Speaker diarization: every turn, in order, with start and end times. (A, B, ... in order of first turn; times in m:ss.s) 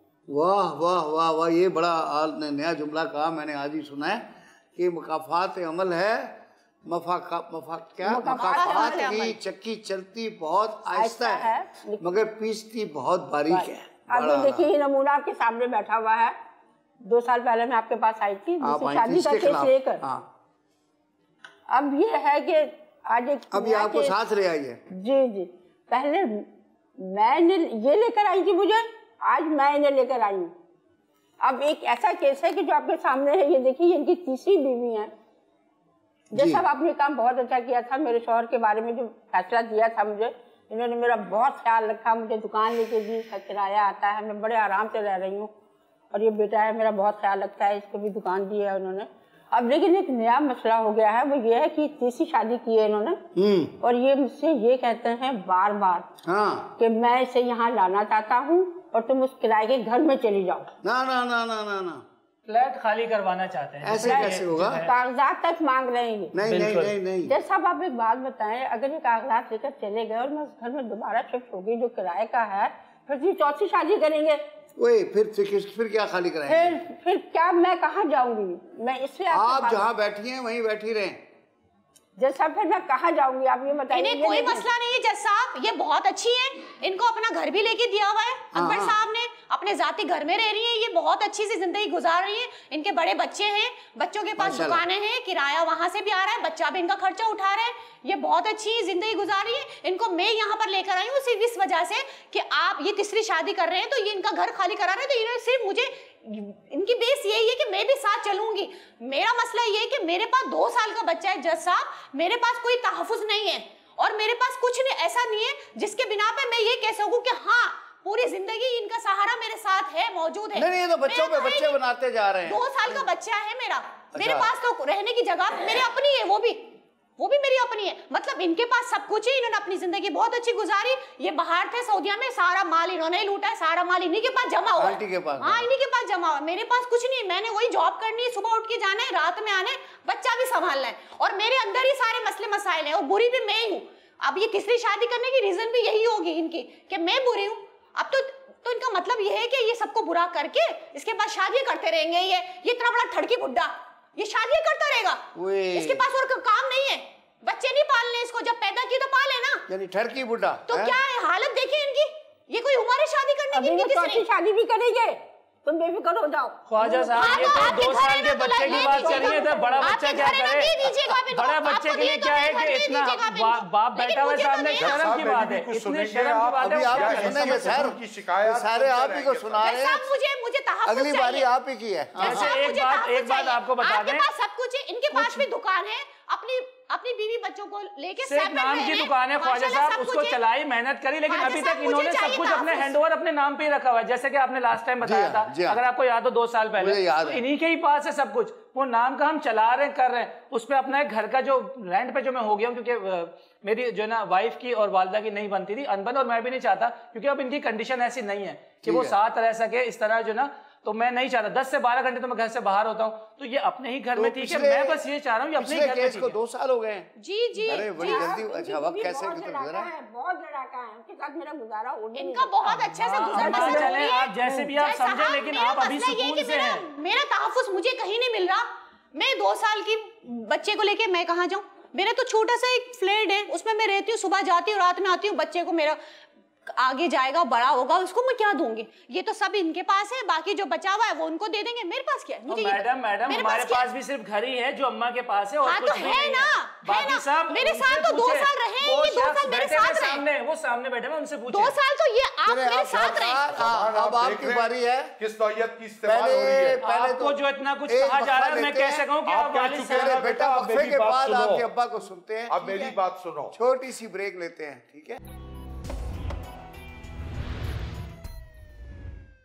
0:00.3-0:14.7 A
0:08.0-0:09.2 B
0:08.3-0:09.4 C
0:10.9-0:12.0 B
0:13.5-0:16.4 B
0:17.0-0:20.0 B
0:18.6-0:20.3 A
0:21.7-0:24.2 B
0:23.5-0:24.8 A
0:24.9-0:30.5 B
0:31.4-0:35.1 B
0:36.3-0:45.5 B
0:36.4-0:36.6 A
0:46.1-0:53.2 B
0:53.4-0:53.8 A
0:53.8-0:56.1 B
0:56.2-0:56.8 A
0:56.8-1:00.7 B
1:00.8-1:02.0 A
1:02.5-1:04.9 D
1:03.8-1:04.8 A
1:04.0-1:06.4 B
1:06.3-1:07.4 A
1:06.4-1:06.9 D
1:07.3-1:14.4 B
1:14.8-1:16.8 A
1:16.5-1:19.9 B
1:19.3-1:21.2 A
1:22.2-1:24.6 B
1:23.9-2:01.8 C
1:28.5-1:29.0 A
1:34.4-1:34.8 A
2:00.5-2:02.6 A
2:02.5-2:39.7 C
2:04.1-2:04.5 A
2:14.8-2:15.7 A
2:35.4-2:36.0 A
2:39.7-2:41.0 A
2:40.7-2:44.3 C
2:43.5-2:47.9 B
2:46.7-2:57.9 D
2:47.1-2:55.0 C
2:48.5-2:50.4 B
2:54.8-2:59.6 E
2:56.6-3:00.1 A
2:59.6-3:01.5 C
3:00.9-3:02.6 A
3:02.2-3:04.3 D
3:02.2-3:10.4 C
3:08.2-3:36.4 D
3:11.3-3:12.9 C
3:15.0-3:15.8 A
3:16.8-3:17.4 A
3:28.8-3:29.2 A
3:34.2-3:35.0 A
3:35.6-3:37.1 A
3:37.2-3:38.3 C
3:37.7-3:39.9 A
3:37.7-3:44.1 B
3:42.1-3:56.0 C
3:42.6-3:46.8 D
3:56.7-4:03.9 C
4:02.5-4:11.8 D
4:05.6-4:10.2 C
4:11.5-4:13.4 C
4:12.5-4:15.2 A
4:13.2-4:16.8 E
4:16.0-4:19.1 A
4:16.8-4:20.2 D
4:19.2-4:21.7 E
4:19.9-4:23.0 A
4:22.5-4:23.6 E
4:23.5-4:25.2 A